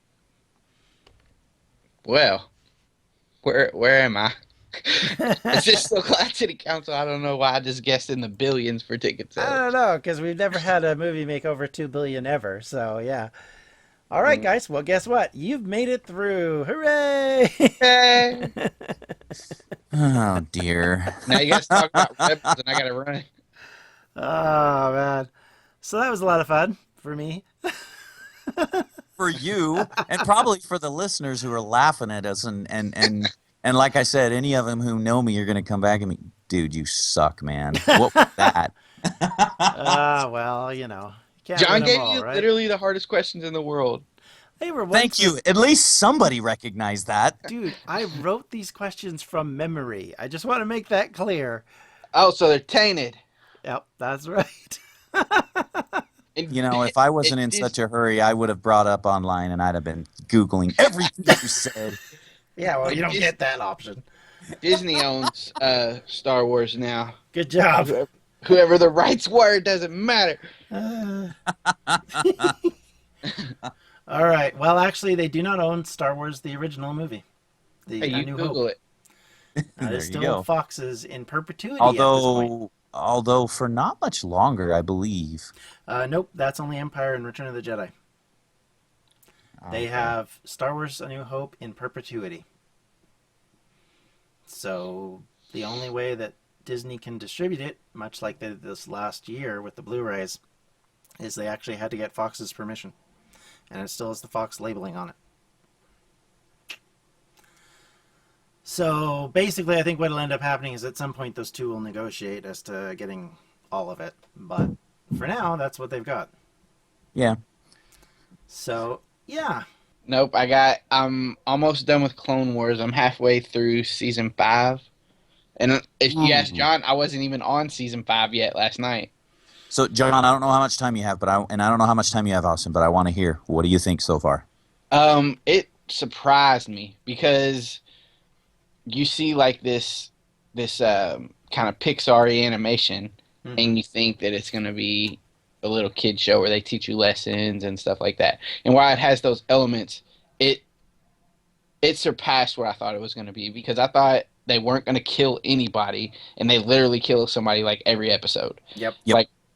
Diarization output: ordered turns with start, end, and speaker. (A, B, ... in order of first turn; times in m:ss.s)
0:02.0-0:02.5 A
0:03.4-0:09.6 A
0:05.2-0:05.6 B
0:09.4-0:13.3 B
0:14.1-0:17.8 B
0:17.8-0:18.5 A
0:18.6-0:18.9 B
0:19.9-0:22.3 C
0:21.3-0:23.2 A
0:24.2-0:25.3 B
0:25.8-0:27.8 B
0:28.5-0:28.8 B
0:29.2-0:40.0 C
0:37.8-0:38.5 B
0:39.7-0:42.5 B
0:41.5-0:44.0 A
0:44.6-0:45.3 B
0:44.9-0:47.4 C
0:47.5-0:51.6 B
0:52.1-0:53.2 A
0:53.6-0:56.0 B
0:56.3-0:57.7 A
0:56.5-1:02.0 C
1:02.6-1:04.0 B
1:02.9-1:03.3 A
1:04.6-1:07.1 A
1:07.3-1:08.0 B
1:07.8-1:10.4 A
1:10.7-1:11.3 B
1:11.6-1:12.5 C
1:12.2-1:12.7 B
1:14.1-1:17.2 B
1:17.9-1:18.6 B
1:18.0-1:18.8 A
1:19.6-1:20.4 C
1:19.8-1:22.5 B
1:21.8-1:25.5 C
1:25.9-1:27.9 B
1:29.6-1:30.1 C
1:29.7-1:32.4 B
1:34.5-1:40.4 B
1:41.2-1:42.9 B
1:43.7-1:45.2 B
1:48.6-1:56.3 B
1:58.5-1:59.6 B
2:00.1-2:04.8 A
2:05.6-2:09.1 A
2:06.1-2:06.7 C
2:09.7-2:14.4 C
2:14.9-2:17.8 A
2:18.9-2:30.6 A
2:23.4-2:23.8 B
2:31.8-2:38.6 A
2:38.7-2:39.0 B